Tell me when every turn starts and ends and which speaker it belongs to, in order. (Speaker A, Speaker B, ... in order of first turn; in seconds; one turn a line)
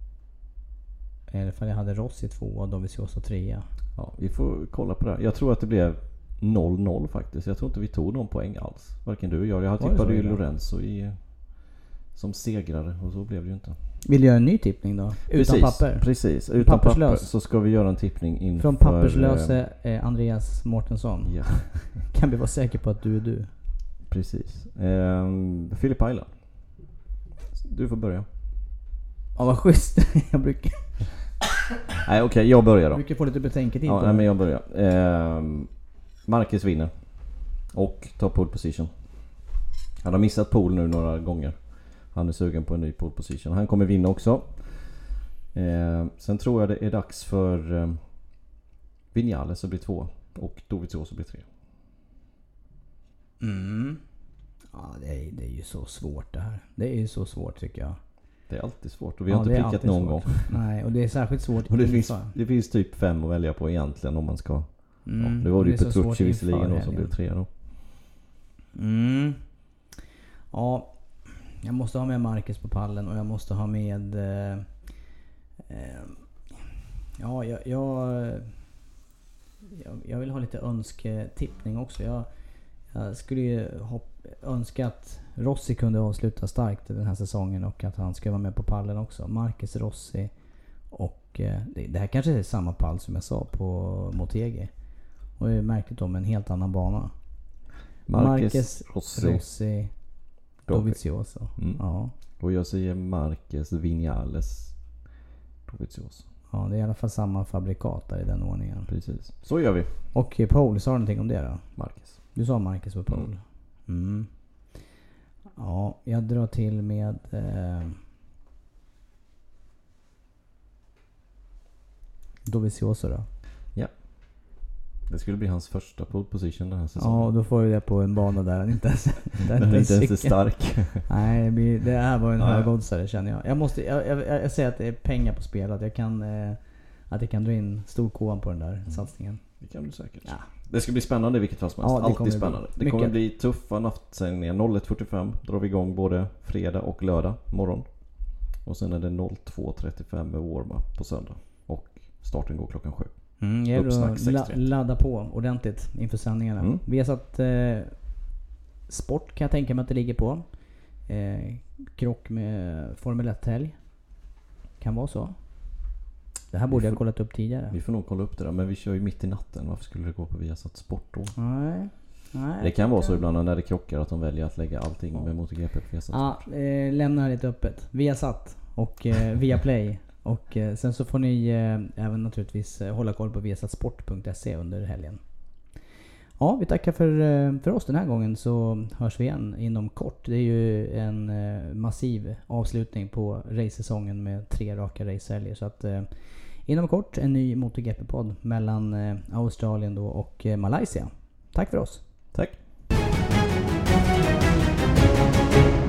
Speaker A: 1.3-3.7
Speaker B: 4.0-13.8
Speaker A: 9.8-10.4
Speaker A: 14.1-17.3
Speaker B: 15.3-19.6
Speaker A: 18.6-23.5
Speaker B: 21.2-22.1
Speaker B: 24.1-26.8
Speaker B: 27.5-28.3
Speaker A: 29.4-31.2
Speaker B: 32.0-33.1
Speaker A: 32.9-34.3
Speaker B: 33.9-35.7
Speaker B: 36.2-39.5
Speaker B: 40.0-48.0
Speaker B: 49.1-51.5
Speaker A: 53.4-54.0
Speaker A: 54.7-58.0
Speaker B: 58.5-60.7
Speaker A: 59.3-62.3
Speaker B: 61.7-67.5
Speaker A: 65.1-67.2
Speaker A: 68.8-69.4
Speaker A: 70.5-74.9
Speaker A: 75.7-76.3
Speaker A: 77.2-78.5
Speaker A: 79.7-82.3
Speaker A: 82.9-90.3
Speaker A: 90.9-94.7
Speaker A: 95.4-97.1
Speaker B: 98.1-99.5
Speaker A: 98.1-100.0
Speaker A: 100.6-102.1
Speaker B: 100.7-104.8
Speaker B: 105.7-106.3
Speaker A: 106.5-108.9
Speaker B: 108.9-110.0
Speaker A: 110.1-111.7
Speaker B: 111.8-112.2
Speaker A: 112.3-114.3
Speaker A: 115.6-118.0
Speaker A: 122.5-123.3
Speaker B: 123.8-124.5
Speaker B: 125.1-127.3
Speaker A: 127.0-139.4
Speaker B: 129.5-131.1
Speaker B: 132.4-132.7
Speaker B: 138.9-154.6
Speaker A: 141.8-143.2
Speaker A: 153.4-158.2
Speaker A: 158.9-164.1
Speaker A: 164.8-165.9
Speaker A: 166.5-167.8
Speaker B: 166.7-171.4
Speaker A: 171.4-173.2
Speaker B: 172.6-176.4
Speaker A: 176.1-185.2
Speaker A: 186.4-202.0